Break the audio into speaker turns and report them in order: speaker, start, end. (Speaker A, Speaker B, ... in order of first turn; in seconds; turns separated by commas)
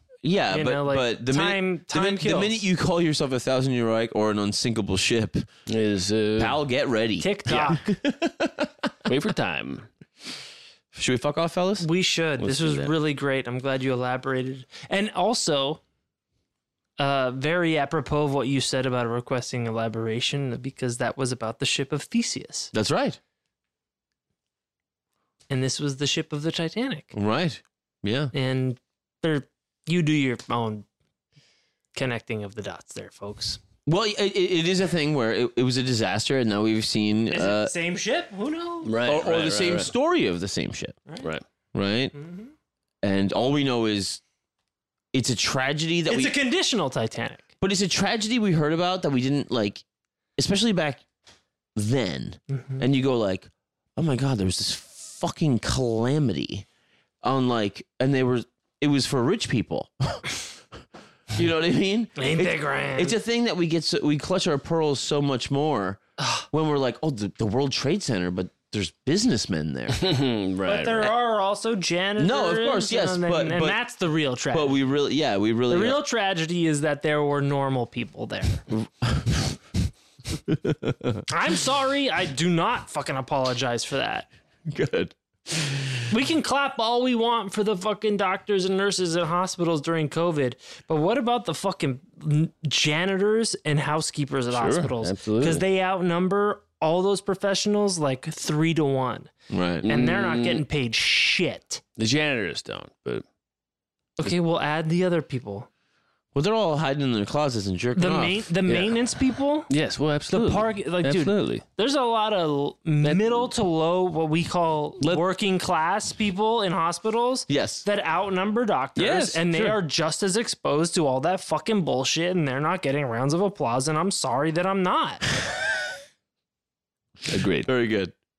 Speaker A: 0.2-5.5, Speaker B: 0.5-2.6, Speaker C: 5.7-6.6, Speaker A: 6.4-8.7, Speaker B: 7.2-7.9, Speaker C: 9.1-9.9, Speaker A: 10.9-11.9, Speaker B: 11.8-15.8, Speaker C: 12.4-12.9, Speaker B: 17.0-22.7, Speaker A: 22.7-23.2, Speaker B: 25.5-27.1, Speaker A: 27.1-28.3, Speaker B: 28.3-30.9, Speaker B: 31.9-33.6, Speaker A: 33.9-37.7, Speaker B: 37.3-38.9, Speaker C: 38.9-39.9, Speaker A: 39.0-41.0, Speaker A: 41.7-42.1, Speaker B: 42.1-42.5, Speaker A: 43.0-44.2, Speaker A: 45.1-46.3, Speaker B: 46.1-47.4, Speaker A: 47.6-49.8, Speaker A: 50.4-51.0, Speaker A: 51.8-56.7, Speaker B: 52.5-52.8, Speaker A: 57.2-60.4, Speaker A: 61.3-66.0, Speaker B: 62.2-63.2, Speaker B: 66.2-66.5, Speaker A: 66.5-70.0, Speaker C: 69.9-71.1, Speaker B: 70.7-74.8, Speaker A: 72.2-73.8, Speaker A: 74.5-76.0, Speaker B: 75.7-78.6, Speaker A: 78.7-79.6, Speaker A: 80.5-81.2, Speaker B: 81.3-84.3, Speaker A: 84.7-86.0, Speaker B: 86.1-99.3, Speaker C: 94.5-95.6, Speaker A: 99.5-99.9, Speaker C: 99.8-100.6, Speaker B: 99.9-101.8, Speaker C: 102.0-103.2, Speaker B: 104.2-105.7, Speaker A: 106.3-108.5, Speaker B: 108.0-109.7, Speaker C: 108.7-109.0, Speaker C: 109.7-111.6, Speaker B: 110.3-125.3, Speaker C: 113.0-113.5, Speaker A: 117.5-117.8, Speaker C: 119.0-119.8, Speaker C: 127.3-127.7, Speaker A: 127.3-128.1